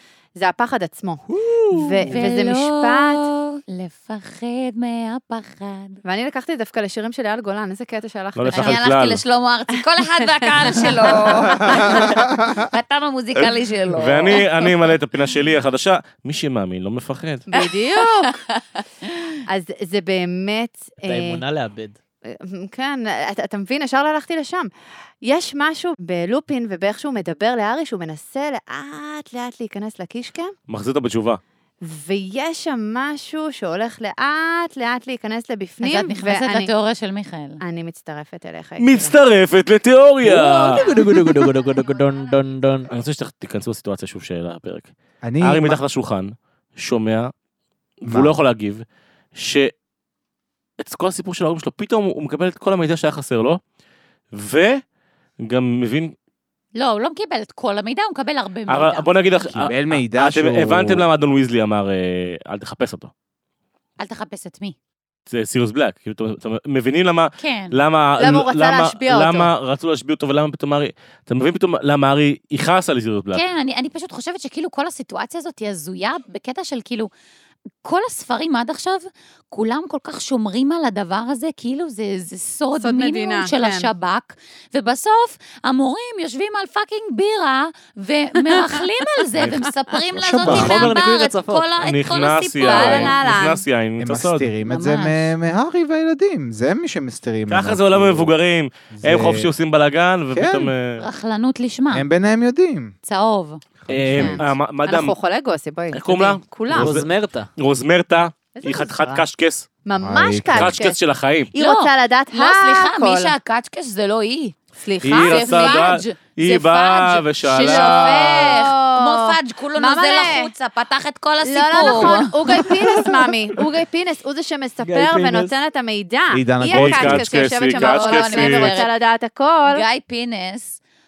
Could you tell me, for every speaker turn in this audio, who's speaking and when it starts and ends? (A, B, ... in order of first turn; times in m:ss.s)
0:00.4-0:03.3 A
0:01.4-0:01.8 B
0:02.1-0:06.0 C
0:06.0-0:08.8 A
0:08.4-0:09.2 D
0:08.5-0:14.8 C
0:10.2-0:12.1 A
0:11.6-0:12.6 E
0:13.4-0:17.5 D
0:17.5-0:18.4 A
0:17.6-0:19.2 C
0:19.5-0:21.4 A
0:21.0-0:22.0 B
0:22.3-0:24.7 A
0:25.2-0:30.5 A
0:30.7-0:31.4 D
0:31.8-0:36.7 A
0:35.8-0:37.6 C
0:37.6-0:39.1 A
0:38.8-0:41.2 D
0:40.2-0:42.9 B
0:42.9-0:47.3 D
0:45.2-0:45.8 E
0:48.0-0:48.8 D
0:48.1-0:48.4 E
0:49.4-0:49.7 D
0:50.8-0:53.6 D
0:54.3-0:54.8 D
0:55.4-0:56.1 D
0:56.7-0:59.1 C
0:58.7-1:03.1 D
0:59.6-1:01.1 E
1:04.0-1:04.8 C
1:05.3-1:13.4 D
1:07.4-1:07.8 C
1:08.2-1:09.5 A
1:13.3-1:17.1 C
1:17.8-1:33.2 C
1:22.8-1:23.9 A
1:28.4-1:28.8 A
1:29.4-1:29.6 D
1:30.2-1:31.0 E
1:30.4-1:31.7 B
1:30.4-1:30.8 D
1:31.8-1:34.5 D
1:32.6-1:33.6 A
1:34.0-1:38.3 E
1:34.6-1:35.3 C
1:37.5-1:41.0 D
1:38.9-1:39.5 E
1:40.3-1:40.7 E
1:41.0-1:42.1 C
1:41.9-1:42.9 E
1:43.1-1:43.6 C
1:43.8-1:44.4 E
1:43.9-1:45.1 D
1:44.2-1:46.9 A
1:45.9-1:49.7 D
1:46.7-1:47.5 B
1:48.6-1:49.2 A
1:49.8-1:51.0 A
1:50.0-1:50.8 E
1:50.6-1:51.5 D
1:51.5-1:53.4 A
1:51.6-1:54.6 C
1:54.8-1:55.9 A
1:55.0-1:58.6 D
1:55.1-2:03.1 C
1:57.6-2:00.5 A
2:01.4-2:09.8 A
2:02.5-2:03.1 B
2:04.8-2:05.6 B
2:06.3-2:07.3 E
2:06.7-2:08.7 D
2:07.6-2:08.9 C
2:09.7-2:10.8 C